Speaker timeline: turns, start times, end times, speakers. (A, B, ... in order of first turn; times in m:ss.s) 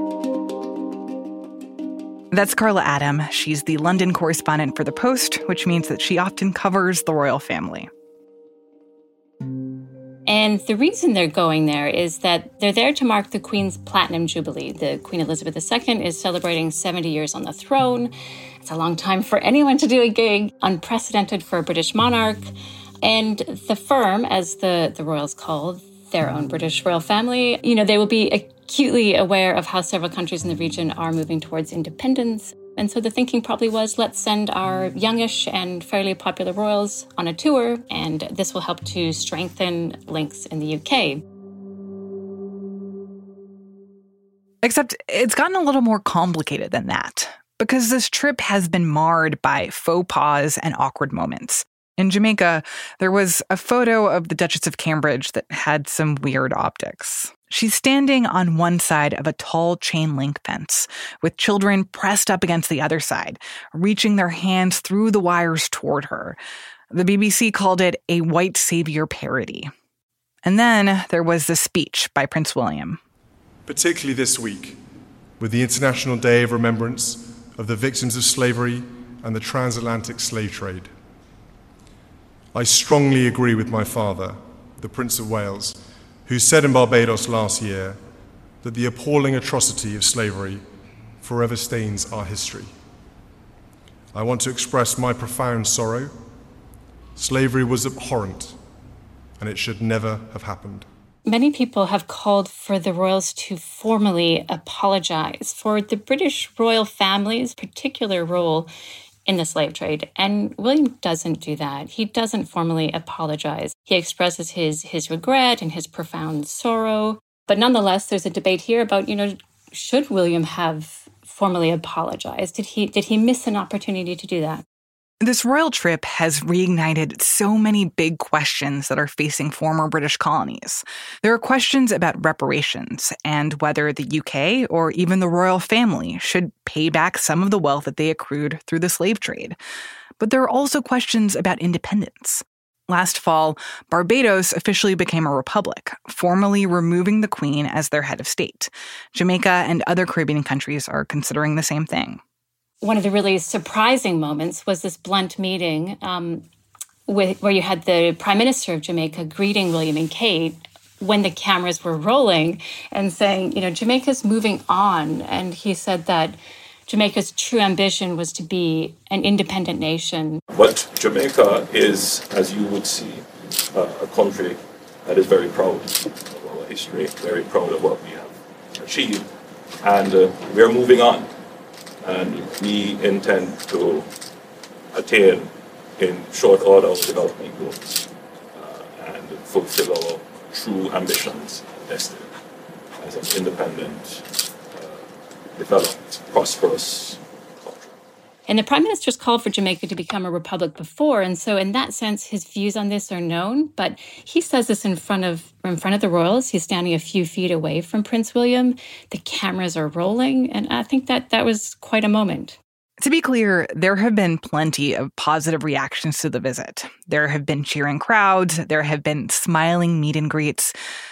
0:02.3-0:07.9 A
0:10.3-0:18.1 B
0:18.6-0:41.2 B
0:44.6-1:06.4 A
1:06.9-1:09.7 A
1:10.4-1:13.0 A
1:13.7-1:14.8 C
1:15.4-1:20.9 C
1:22.5-1:28.0 C
1:28.6-1:30.6 C
1:31.2-1:32.7 C
1:34.1-1:36.1 C
1:37.2-1:38.6 C
1:39.4-1:40.9 C
1:41.2-1:48.7 B
1:49.3-2:04.6 B
2:05.2-2:19.6 A
2:20.2-2:32.2 A
2:32.8-2:36.4 B
2:37.1-2:50.4 B
2:50.6-2:53.2 D
2:53.8-2:54.5 D
2:55.1-2:58.3 D
2:58.8-2:59.2 D
2:59.8-3:01.2 D
3:02.0-3:04.0 D
3:05.0-3:05.4 D
3:06.0-3:08.0 D
3:08.6-3:12.2 D
3:13.0-3:14.2 D
3:14.7-3:15.0 D
3:15.6-3:17.9 D
3:18.5-3:32.6 B
3:33.0-3:40.7 A